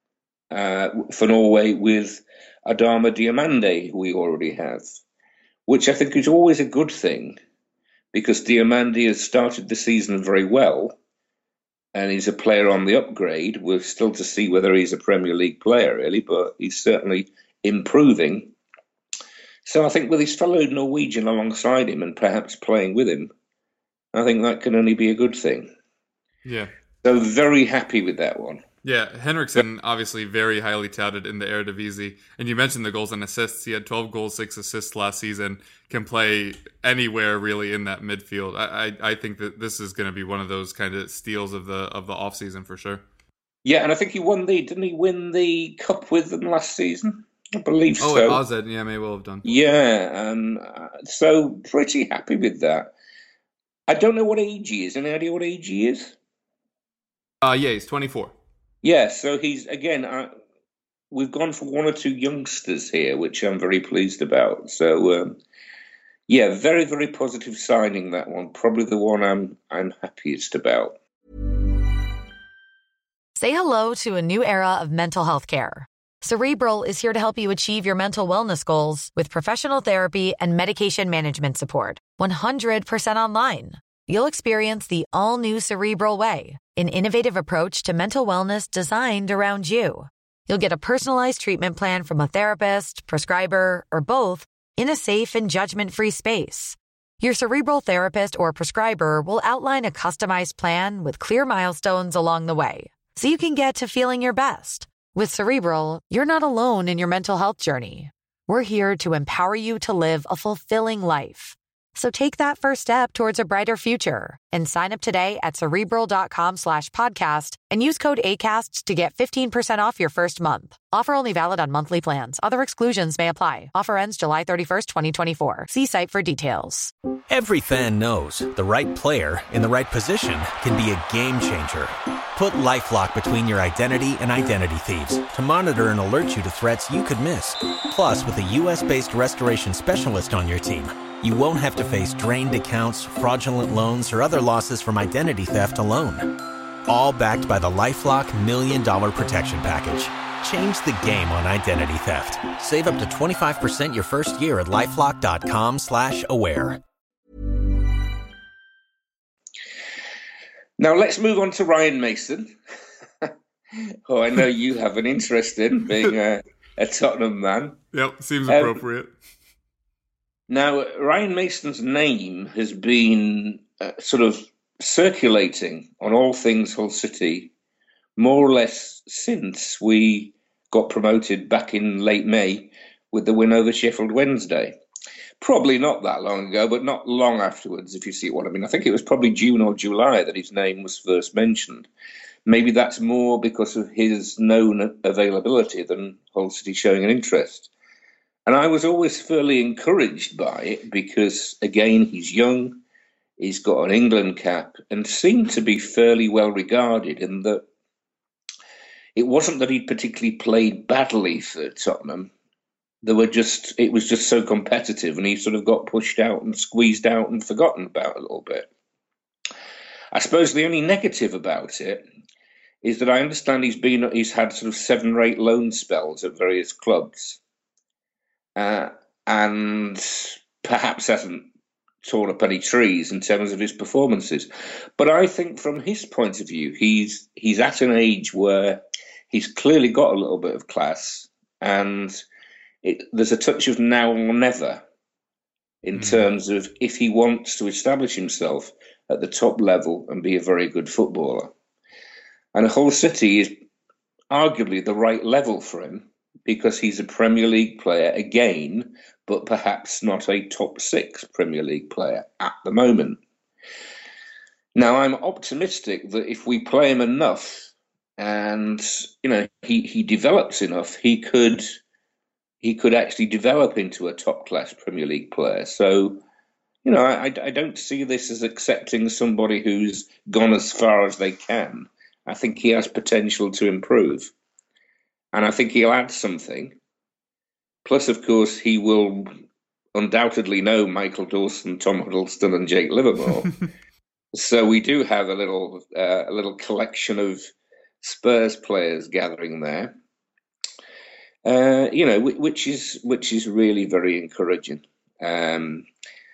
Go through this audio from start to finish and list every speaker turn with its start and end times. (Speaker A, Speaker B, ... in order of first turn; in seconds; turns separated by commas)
Speaker A: 0.5-5.0, Speaker A: 5.7-7.4, Speaker A: 8.1-11.0, Speaker A: 11.9-18.5, Speaker A: 19.6-23.3, Speaker A: 24.1-25.7, Speaker B: 26.4-26.7, Speaker A: 27.0-28.6, Speaker B: 28.8-43.0, Speaker A: 43.6-48.4, Speaker B: 48.0-49.5, Speaker A: 49.4-52.9, Speaker A: 53.9-56.2, Speaker B: 57.4-58.4, Speaker A: 58.8-60.3, Speaker A: 61.1-65.4, Speaker A: 66.3-71.0, Speaker C: 73.4-126.9, Speaker D: 127.3-156.8, Speaker A: 160.8-162.5, Speaker A: 164.1-167.8, Speaker B: 167.9-169.1, Speaker A: 168.5-168.8, Speaker A: 170.5-177.5, Speaker A: 178.2-184.8, Speaker A: 185.4-191.9, Speaker A: 192.5-197.7, Speaker A: 198.5-202.8, Speaker A: 203.4-207.6, Speaker A: 209.2-212.3, Speaker A: 213.0-218.7, Speaker A: 220.1-222.1, Speaker A: 222.8-227.4, Speaker A: 228.6-231.5, Speaker A: 232.0-242.2, Speaker A: 242.8-244.8, Speaker A: 245.8-251.5, Speaker B: 246.0-246.3, Speaker A: 252.5-253.6, Speaker A: 254.3-263.2, Speaker A: 264.8-271.8, Speaker A: 272.6-276.2, Speaker A: 276.9-284.3, Speaker A: 285.3-286.8, Speaker A: 287.9-289.3, Speaker A: 289.9-293.6, Speaker A: 294.3-297.4, Speaker A: 298.0-300.0, Speaker A: 301.4-305.9